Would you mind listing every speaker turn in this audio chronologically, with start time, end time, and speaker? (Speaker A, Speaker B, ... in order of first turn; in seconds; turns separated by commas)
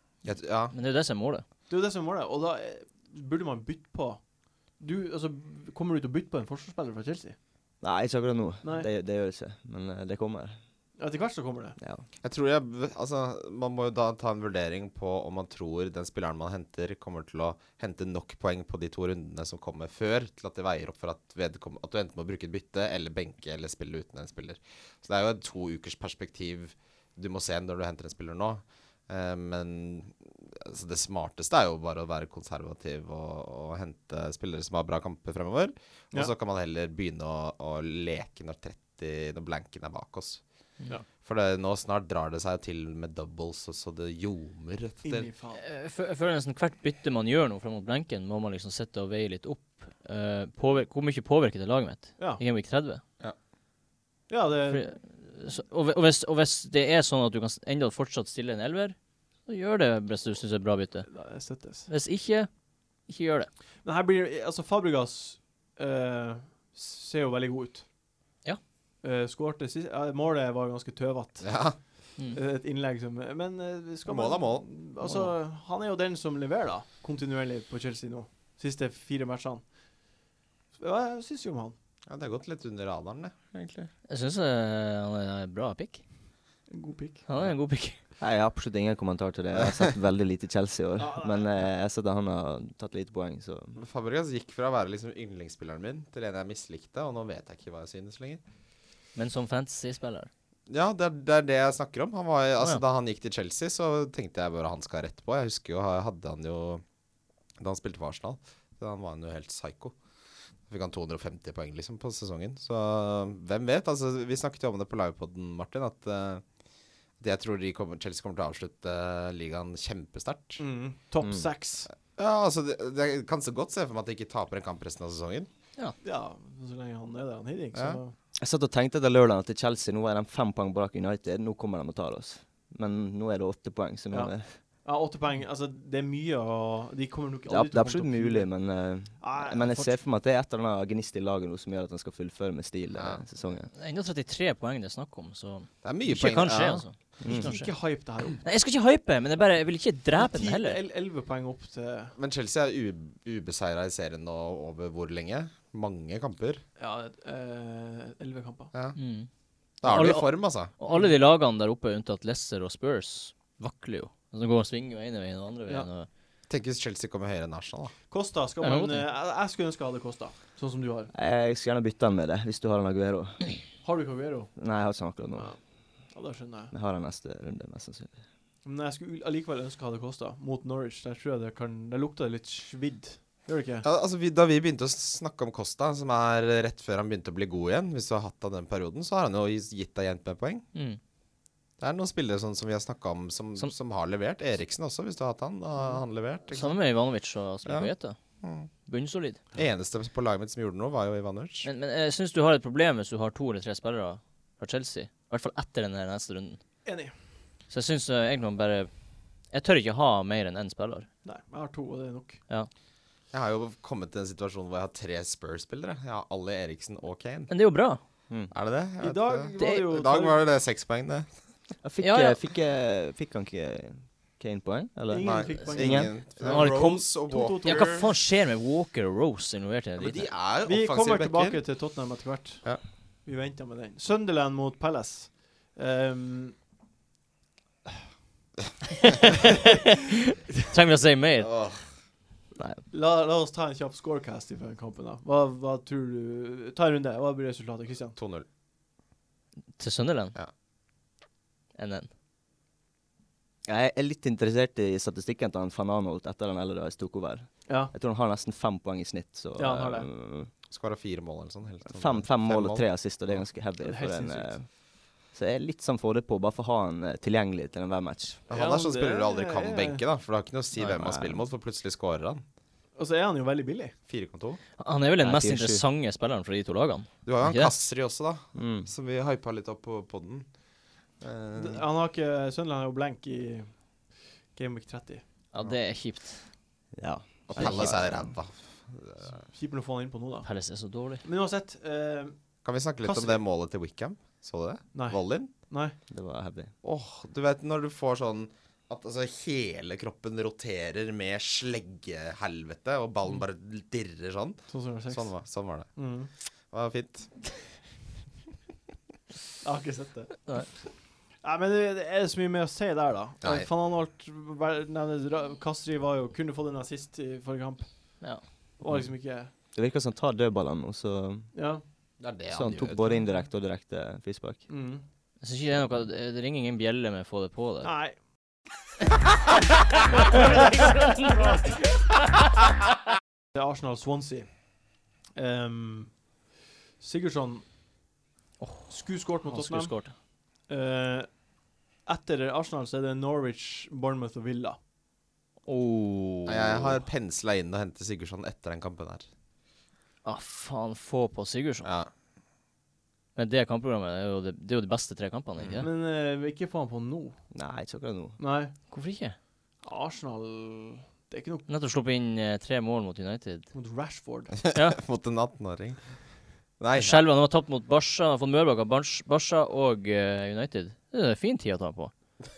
Speaker A: 0.2-0.7, Speaker B: 0.7-1.4, Speaker C: 1.7-7.4, Speaker D: 7.8-10.6, Speaker C: 8.6-8.9, Speaker C: 11.0-11.8, Speaker D: 11.8-12.0, Speaker A: 12.2-40.4, Speaker A: 41.1-45.3, Speaker C: 45.0-45.6, Speaker B: 45.6-53.0, Speaker C: 54.3-54.8, Speaker B: 54.7-61.1, Speaker C: 61.1-61.9, Speaker B: 61.9-62.5, Speaker B: 63.0-63.5, Speaker C: 63.8-67.8, Speaker C: 69.0-79.7, Speaker A: 71.4-71.8, Speaker A: 74.0-75.3, Speaker C: 80.7-81.7, Speaker A: 82.1-83.9, Speaker B: 84.1-86.0, Speaker C: 86.7-87.2, Speaker B: 87.3-88.0, Speaker D: 88.2-93.8, Speaker C: 91.0-91.5, Speaker A: 93.8-98.4, Speaker B: 99.2-100.3, Speaker A: 100.7-106.8, Speaker A: 107.6-109.9, Speaker A: 110.7-116.4, Speaker A: 117.2-120.6, Speaker C: 120.6-121.9, Speaker A: 122.1-125.5, Speaker C: 126.0-128.1, Speaker D: 128.4-134.5, Speaker C: 134.1-138.5, Speaker D: 137.5-143.7, Speaker C: 139.2-140.0, Speaker A: 142.9-143.2, Speaker B: 143.7-147.7, Speaker A: 145.8-146.8, Speaker D: 147.2-147.5, Speaker C: 147.2-148.4, Speaker B: 148.4-150.8, Speaker C: 150.2-152.1, Speaker A: 152.2-156.6, Speaker C: 156.8-158.7, Speaker A: 158.7-159.0, Speaker B: 158.9-159.3, Speaker A: 159.8-160.7, Speaker B: 159.8-166.1, Speaker C: 160.9-161.2, Speaker A: 166.5-167.9, Speaker C: 168.1-171.1, Speaker B: 168.6-169.1, Speaker D: 171.1-173.6, Speaker C: 173.8-174.5, Speaker D: 174.6-175.5, Speaker C: 175.3-176.7, Speaker D: 176.7-178.1, Speaker C: 178.6-183.8, Speaker A: 183.8-190.6, Speaker B: 190.7-191.0, Speaker A: 191.8-196.8, Speaker B: 196.5-198.2, Speaker A: 197.7-197.9, Speaker A: 198.4-198.7, Speaker B: 198.8-199.4, Speaker A: 199.5-201.7, Speaker B: 201.6-206.6, Speaker C: 206.8-207.1, Speaker B: 207.7-208.9, Speaker B: 209.5-211.1, Speaker C: 211.2-212.4, Speaker A: 213.3-217.5, Speaker B: 217.5-218.0, Speaker A: 218.5-221.3, Speaker C: 219.0-220.4, Speaker D: 221.8-226.1, Speaker B: 222.0-222.4, Speaker C: 225.1-228.1, Speaker A: 225.2-227.7, Speaker B: 226.4-230.3, Speaker A: 230.0-231.6, Speaker C: 230.6-236.6, Speaker B: 239.0-241.6, Speaker A: 241.4-241.9, Speaker C: 242.9-248.2, Speaker A: 248.2-248.4, Speaker B: 249.8-250.3, Speaker B: 251.7-252.1, Speaker D: 253.7-260.5, Speaker C: 257.7-257.9, Speaker C: 259.6-260.1, Speaker A: 260.7-263.4, Speaker D: 261.9-264.7, Speaker C: 263.8-264.6, Speaker D: 265.2-268.4, Speaker A: 268.5-272.4, Speaker C: 268.5-270.0, Speaker D: 271.0-271.4, Speaker C: 272.9-273.9, Speaker A: 274.1-274.6, Speaker B: 274.8-277.8, Speaker D: 275.2-275.8, Speaker A: 277.2-280.5, Speaker D: 278.5-278.9, Speaker A: 281.2-281.8, Speaker C: 281.5-283.9, Speaker C: 284.5-285.2, Speaker B: 285.5-286.5, Speaker D: 286.9-288.0, Speaker A: 287.5-289.4, Speaker B: 287.6-287.9, Speaker C: 289.3-290.5, Speaker B: 290.4-291.2, Speaker C: 291.2-292.4, Speaker A: 292.6-295.5, Speaker C: 293.0-293.4, Speaker C: 294.9-296.0, Speaker D: 296.1-296.7, Speaker A: 296.8-305.9, Speaker C: 304.7-305.3, Speaker C: 305.9-306.3, Speaker A: 306.7-307.3, Speaker C: 309.6-310.6, Speaker C: 311.4-318.2, Speaker A: 313.4-313.7, Speaker C: 318.8-319.5, Speaker D: 319.7-321.5, Speaker C: 321.5-321.8, Speaker A: 322.2-323.2, Speaker D: 322.5-324.6, Speaker C: 324.7-325.0, Speaker B: 325.4-327.9, Speaker C: 327.8-328.1, Speaker B: 330.3-331.6, Speaker C: 333.5-334.7, Speaker C: 335.3-336.2, Speaker C: 337.0-337.6, Speaker B: 338.6-338.9, Speaker C: 338.9-341.4, Speaker B: 339.4-340.1, Speaker C: 342.0-344.8, Speaker B: 345.6-347.0, Speaker A: 346.4-349.2, Speaker B: 350.2-351.9, Speaker A: 351.8-352.1, Speaker B: 353.4-355.9, Speaker A: 355.6-355.8, Speaker C: 355.8-357.4, Speaker D: 357.5-358.4, Speaker C: 358.4-358.7, Speaker B: 358.9-359.4, Speaker C: 359.8-361.7, Speaker B: 361.7-363.7, Speaker C: 363.7-364.5, Speaker A: 364.7-366.0, Speaker A: 366.8-367.2, Speaker B: 366.9-372.1